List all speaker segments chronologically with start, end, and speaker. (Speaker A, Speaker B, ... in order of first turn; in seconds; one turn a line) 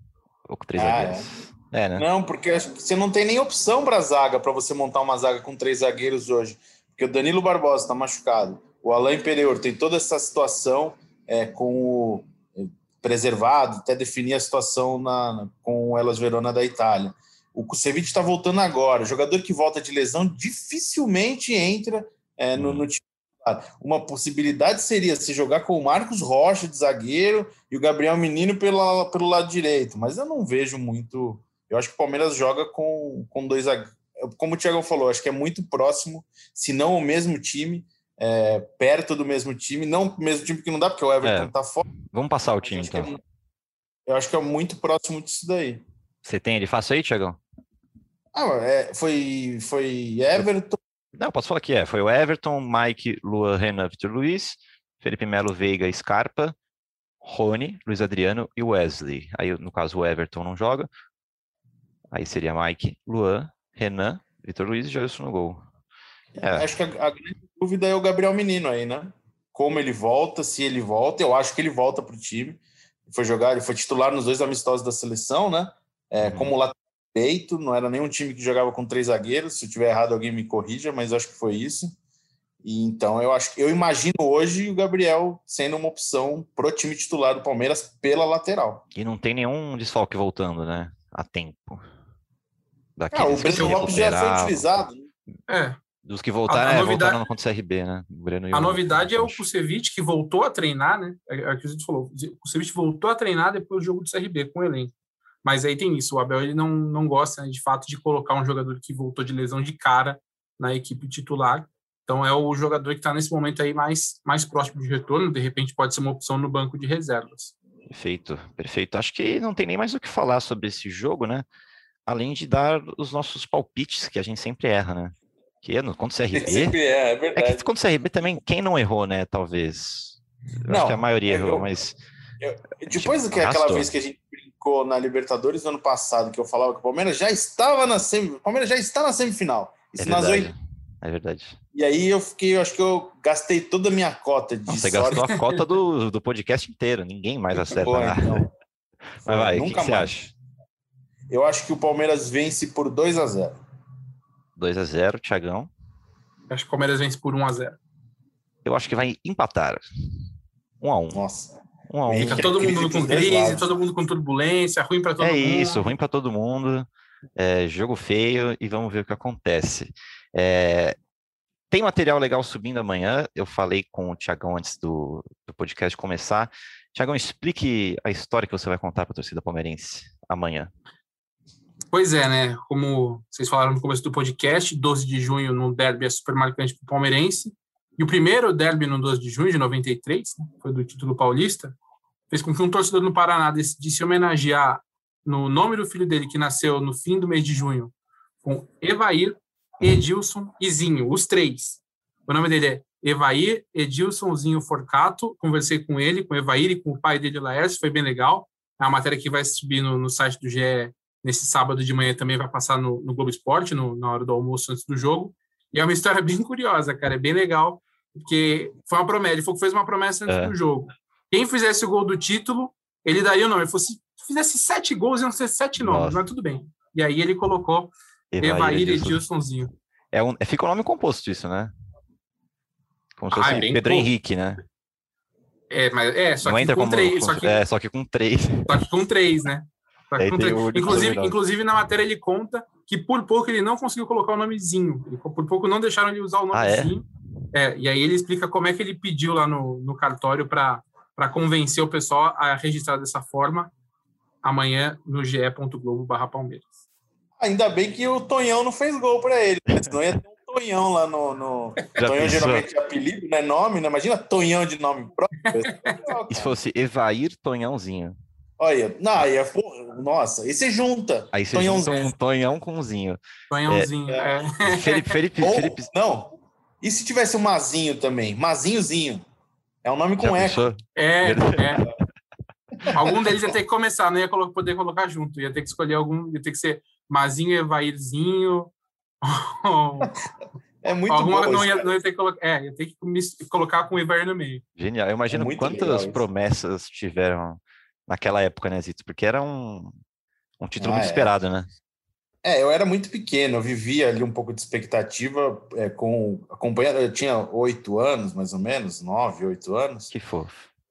Speaker A: 0.5-2.0
Speaker B: 0.7-1.3
Speaker B: 1.9-41.9
Speaker A: 22.6-22.8
Speaker A: 41.2-41.5
Speaker A: 42.1-43.2
Speaker B: 42.6-43.2
Speaker B: 44.1-45.8
Speaker A: 46.2-47.4
Speaker B: 48.3-50.8
Speaker A: 51.2-56.5
Speaker A: 57.2-60.9
Speaker A: 62.1-65.6
Speaker B: 66.4-81.9
Speaker A: 66.4-66.7
Speaker A: 76.2-76.5
Speaker B: 82.6-88.8
Speaker A: 88.9-91.8
Speaker A: 93.0-94.8
Speaker B: 93.1-95.0
Speaker C: 93.4-94.0
Speaker C: 95.5-95.8
Speaker A: 96.0-99.4
Speaker C: 96.5-97.2
Speaker C: 98.5-104.9
Speaker C: 105.4-117.5
Speaker A: 117.9-121.5
Speaker A: 122.0-125.1
Speaker A: 125.6-126.7
Speaker B: 126.3-127.7
Speaker A: 127.3-132.0
Speaker B: 130.7-131.7
Speaker B: 132.4-140.5
Speaker A: 132.9-133.9
Speaker A: 140.0-141.6
Speaker B: 141.7-145.3
Speaker A: 144.7-148.4
Speaker C: 145.2-145.6
Speaker B: 147.5-148.5
Speaker A: 149.2-150.3
Speaker B: 149.2-150.2
Speaker B: 151.3-153.5
Speaker A: 154.6-155.7
Speaker C: 156.5-157.8
Speaker A: 158.6-159.8
Speaker A: 160.8-161.2
Speaker B: 161.1-161.6
Speaker A: 161.9-162.6
Speaker B: 162.1-163.7
Speaker C: 162.2-166.0
Speaker A: 165.2-171.0
Speaker A: 171.7-180.7
Speaker C: 181.9-191.8
Speaker C: 192.3-229.7
Speaker A: 220.3-220.5
Speaker A: 225.8-226.2
Speaker A: 228.3-229.2
Speaker A: 230.1-231.7
Speaker A: 233.2-234.6
Speaker C: 233.3-234.1
Speaker C: 235.7-237.6
Speaker A: 236.4-238.7
Speaker C: 238.7-253.7
Speaker A: 240.2-241.3
Speaker A: 246.5-246.9
Speaker C: 254.4-256.6
Speaker B: 257.4-266.6
Speaker A: 262.0-262.6
Speaker C: 265.4-265.9
Speaker A: 266.3-268.1
Speaker B: 268.6-271.9
Speaker A: 271.3-273.9
Speaker C: 271.8-272.1
Speaker C: 273.5-275.1
Speaker B: 274.1-274.4
Speaker A: 274.6-275.9
Speaker B: 275.4-279.2
Speaker B: 279.8-280.6
Speaker A: 280.2-281.9
Speaker C: 280.9-281.8
Speaker B: 282.9-283.3
Speaker C: 282.9-290.1
Speaker B: 290.8-291.9
Speaker C: 291.1-294.6
Speaker A: 294.8-299.9
Speaker B: 295.3-296.2
Speaker A: 300.6-301.7
Speaker B: 300.8-301.3
Speaker B: 302.4-310.1
Speaker A: 310.1-310.7